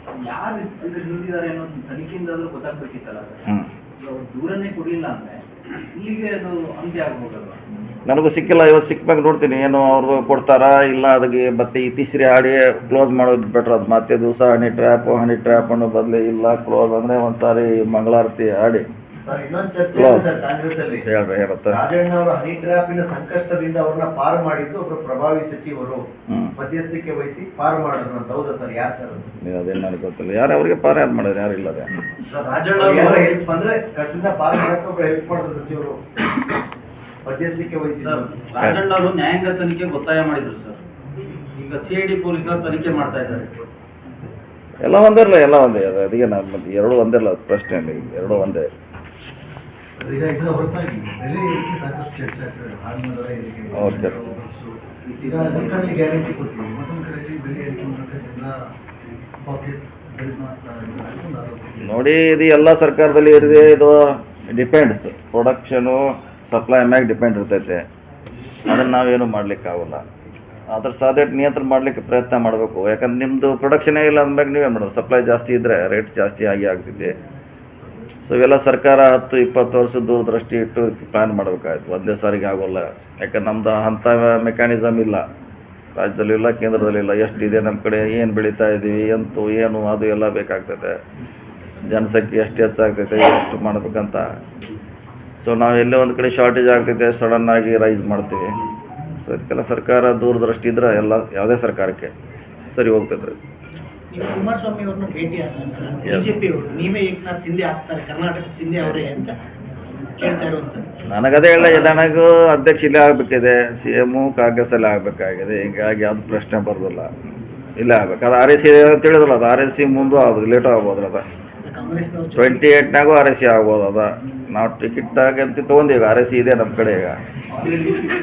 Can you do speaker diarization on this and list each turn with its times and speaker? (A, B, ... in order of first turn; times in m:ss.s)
0:00.2-0:05.4 A
0:05.9-0:07.6 A
0:08.1-0:18.9 B
0:19.2-0:21.0 C
0:19.9-0:20.3 B
0:21.1-0:21.8 B
0:21.7-0:26.0 C
0:26.3-0:26.5 B
0:26.6-0:29.3 C
0:29.4-0:32.0 B
0:32.3-0:33.4 D
0:32.4-0:36.0 C
0:37.2-0:38.3 C
0:38.0-0:40.8 D
0:38.6-0:38.8 B
0:41.6-0:43.5 D
0:44.8-0:48.7 B
0:50.0-0:58.6 E
0:53.7-0:54.1 B
0:55.1-0:55.7 A
0:59.4-1:02.0 E
1:01.8-1:07.8 B
1:08.7-1:10.0 B
1:10.7-1:17.2 B
1:18.2-1:25.2 B
1:26.0-1:31.0 B
1:31.8-1:34.2 B
1:35.4-1:38.6 B
1:39.2-1:42.1 B
1:42.7-1:43.4 B
1:44.1-1:49.3 F
1:46.0-1:46.4 B
1:50.2-1:50.8 F
1:51.1-1:57.1 B
1:57.8-2:01.2 B
2:01.6-2:02.7 F
2:02.3-2:07.2 B